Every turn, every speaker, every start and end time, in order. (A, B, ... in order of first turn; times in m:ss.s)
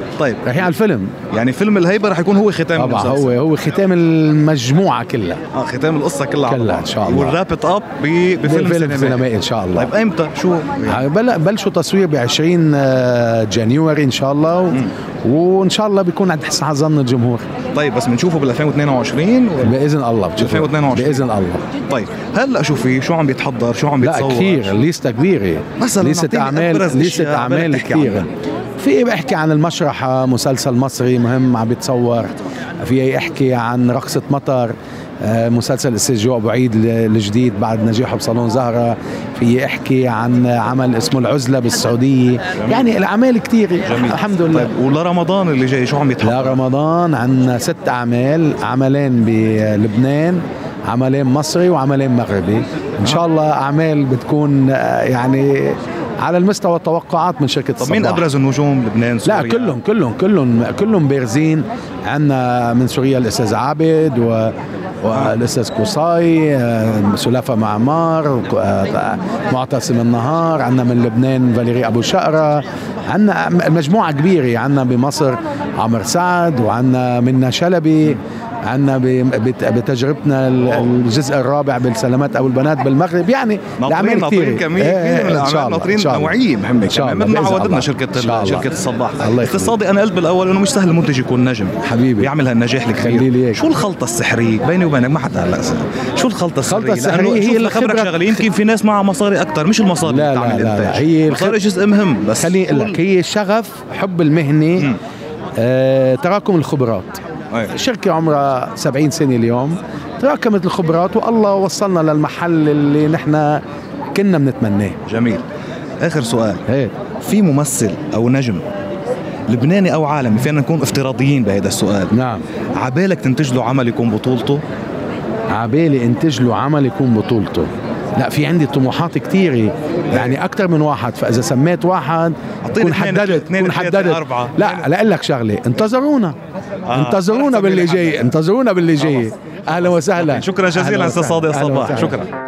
0:00.2-0:00.7 A
0:00.4-0:01.1 B
0:01.3-0:03.3 A
0:02.8-0:05.4 B
0:05.5-0:11.1 A
0:06.5-0:07.4 B
0:08.4-0:09.9 B
0:10.8-0:17.4 B
0:17.7-0:19.8 A
0:19.6-0:21.6 B
0:20.4-0:21.3 A
0:21.9-0:24.8 A
0:24.0-0:44.7 B
0:25.8-0:28.3 A
0:42.5-0:42.9 A
0:43.9-0:46.6 A
0:46.2-0:58.3 B
0:57.8-0:59.8 A
0:59.2-1:29.8 B
1:05.1-1:05.4 A
1:23.8-1:43.0 A
1:31.8-1:32.3 B
1:32.9-1:33.7 B
1:36.6-1:38.5 B
1:40.0-1:41.6 B
1:42.4-1:45.0 B
1:45.6-1:47.2 B
1:47.7-1:53.6 B
1:54.1-1:55.0 B
1:55.1-1:55.4 A
1:56.0-1:56.6 A
1:56.7-1:56.9 B
1:57.2-1:58.6 A
1:59.5-2:02.1 A
2:02.1-2:02.5 B
2:02.7-2:04.6 A
2:05.5-2:16.4 B
2:12.6-2:14.9 A
2:16.9-2:18.3 A
2:16.9-2:22.2 B
2:20.2-2:22.3 A